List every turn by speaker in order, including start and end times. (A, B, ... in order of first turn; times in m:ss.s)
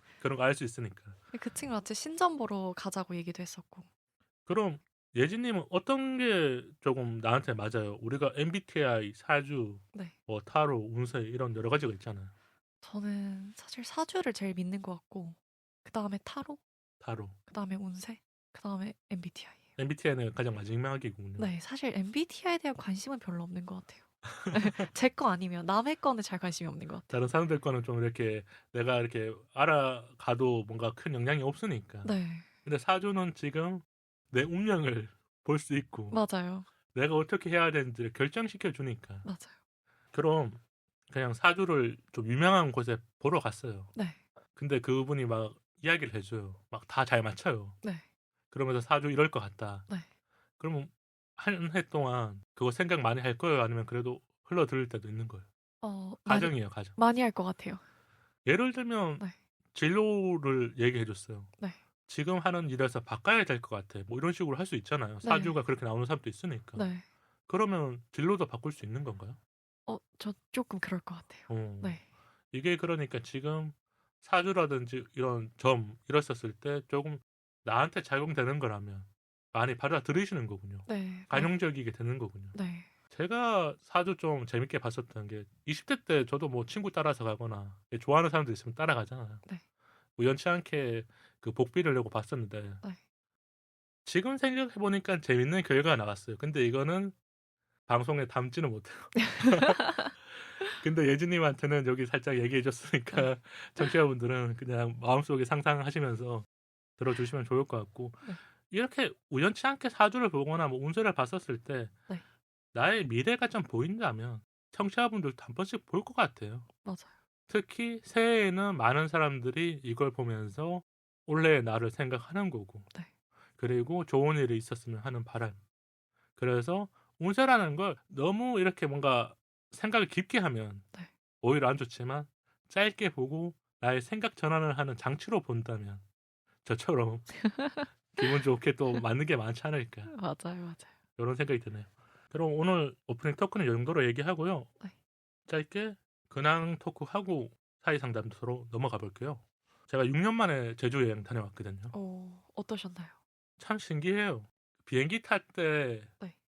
0:00.2-0:01.2 A
0:01.3-0:03.9 B
0:04.4-0:12.3 A
0:12.8-0:16.6 B
0:17.0-0:17.4 A
0:17.5-0:19.6 B
0:19.8-0:21.5 A
0:21.4-0:27.1 B
0:24.4-0:24.7 A
0:27.1-0:36.2 A
0:32.0-0:32.4 B
0:36.1-0:36.7 B
0:36.9-0:39.2 A
0:39.2-0:39.5 B
0:40.1-0:43.9 A
0:44.6-0:47.8 A
0:48.5-0:49.9 A
0:50.6-0:55.5 A
0:55.8-0:57.8 B
0:56.3-0:57.0 A
0:58.4-1:01.5 A
1:02.1-1:06.8 A
1:05.2-1:05.6 B
1:06.8-1:07.0 B
1:07.5-1:09.4 A
1:09.9-1:12.0 B
1:11.5-1:12.0 A
1:12.5-1:22.6 A
1:20.8-1:21.5 B
1:22.5-1:22.9 B
1:23.1-1:29.4 A
1:30.2-1:32.8 A
1:34.0-1:37.2 A
1:37.9-1:46.4 A
1:39.2-1:40.1 B
1:47.0-1:51.9 A
1:52.7-1:56.7 A
1:56.8-1:57.1 B
1:57.5-2:02.9 A
2:03.6-2:05.6 A
2:06.4-2:10.8 A
2:11.4-2:16.0 A
2:16.6-2:17.4 A
2:17.4-2:18.2 B
2:18.1-2:20.1 A
2:20.1-2:20.9 B
2:21.2-2:24.7 A
2:25.5-2:31.9 A
2:31.9-2:33.1 B
2:33.6-2:36.1 A